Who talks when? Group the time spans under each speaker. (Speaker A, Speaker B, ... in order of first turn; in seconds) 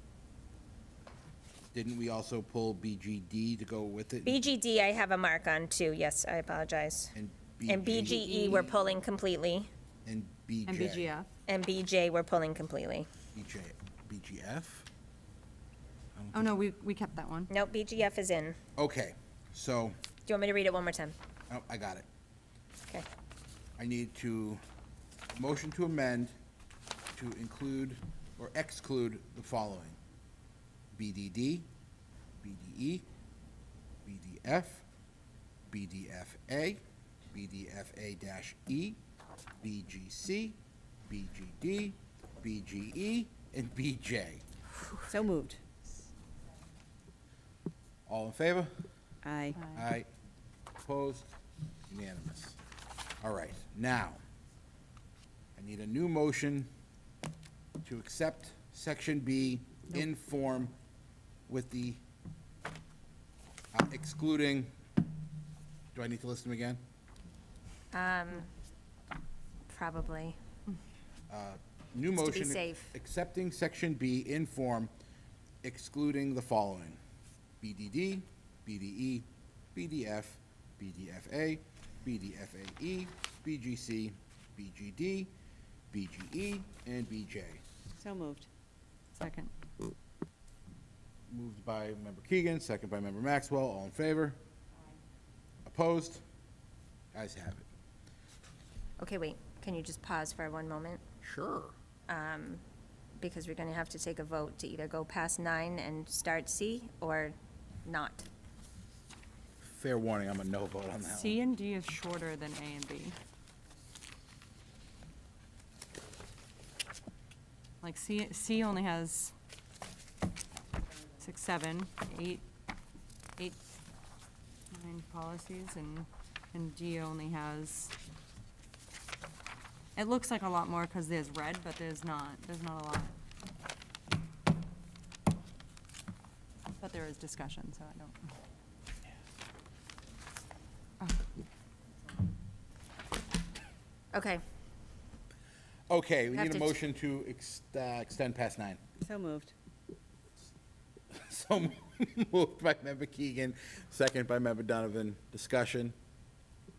Speaker A: 1.7-4.4, 7.1-8.5, 10.0-11.1, 13.3-14.8, 16.1-16.5, 18.8-20.0, 21.5-22.0, 23.8-24.6, 25.3-26.3, 27.1-30.0, 30.9-31.7, 32.4-33.0, 34.0-34.8, 35.7-39.0, 39.6-44.4, 48.1-48.7, 49.7-50.1, 50.8-51.3, 51.9-52.6, 53.2-54.2, 55.5-56.7, 57.8-60.7, 61.5-62.0, 63.7-64.7, 65.9-66.8, 71.3-74.9, 75.6-77.0, 77.6-85.3, 85.9-87.6, 91.3-94.4, 95.6-96.2, 97.1-97.7, 101.2-101.7, 109.6-111.4, 145.9-148.8, 151.1-155.9
Speaker B: 4.2-7.1, 7.7-9.7, 11.5-13.1, 17.5-18.6, 20.2-21.1, 67.9-68.5, 69.7-70.3, 72.2-72.9, 99.0-101.0, 102.1-102.6, 103.2-107.3, 107.8-108.2, 144.1-144.4, 146.3-146.8
Speaker C: 8.0-8.8, 10.7-11.3, 16.3-17.5, 49.5-49.8, 89.1-89.5, 111.0-113.2, 117.8-119.3, 121.2-122.4, 124.7-127.9, 129.9-133.1, 136.8-138.4
Speaker D: 45.1-45.8, 49.2-49.6, 88.0-88.5, 149.0-149.5